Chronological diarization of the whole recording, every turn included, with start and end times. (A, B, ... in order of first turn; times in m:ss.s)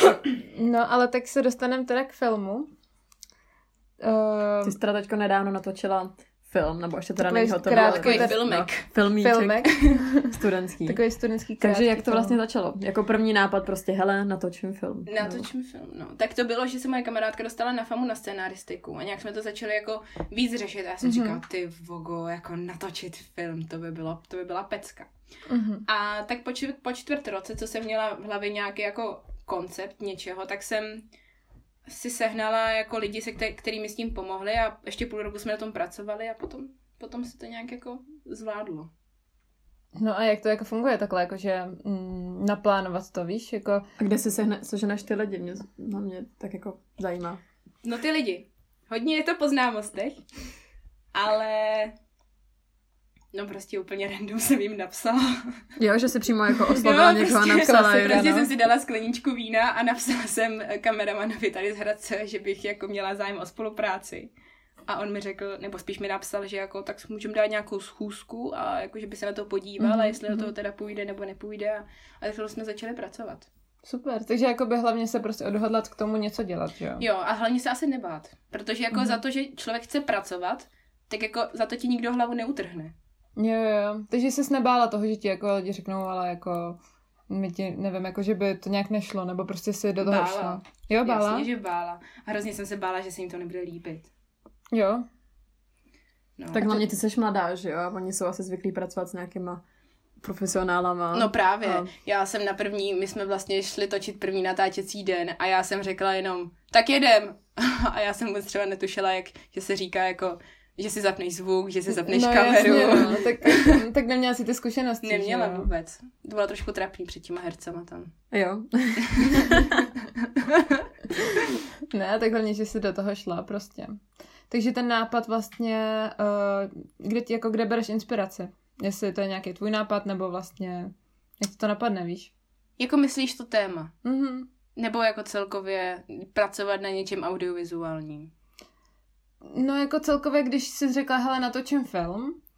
0:00.5-0:02.7 A
0:04.0-0:04.8 A
0:04.6-0:09.7 B
0:07.2-0:08.4 A
0:07.7-0:08.9 C
0:09.2-0:12.4 A
0:09.6-0:10.0 C
0:10.3-0:11.0 B
0:11.6-0:15.4 B
0:15.1-0:25.1 C
0:21.0-0:21.4 A
0:25.5-0:25.9 A
0:25.9-0:31.0 C
0:31.9-0:38.9 C
0:40.0-0:43.8 A
0:44.0-0:47.4 B
0:47.8-0:50.2 C
0:51.1-0:51.9 C
0:53.3-0:55.6 C
0:55.8-0:58.3 B
0:56.7-1:04.3 C
0:57.5-0:58.5 A
1:04.9-1:13.5 C
1:09.8-1:10.5 A
1:13.8-1:17.0 A
1:17.0-1:22.9 C
1:18.9-1:19.2 A
1:23.4-1:26.8 A
1:27.3-1:31.5 A
1:30.0-1:34.1 C
1:34.7-1:35.0 A
1:36.4-1:36.8 C
1:36.5-1:39.6 B
1:40.2-1:41.3 B
1:41.1-1:53.8 C
1:51.9-1:55.7 A
1:52.8-1:53.2 B
1:55.0-1:58.1 C
1:58.3-1:59.6 B
1:59.0-2:00.8 C
2:01.9-2:12.3 A
2:12.8-2:13.9 C
2:14.0-2:14.5 A
2:14.8-2:18.3 C
2:19.4-2:22.4 A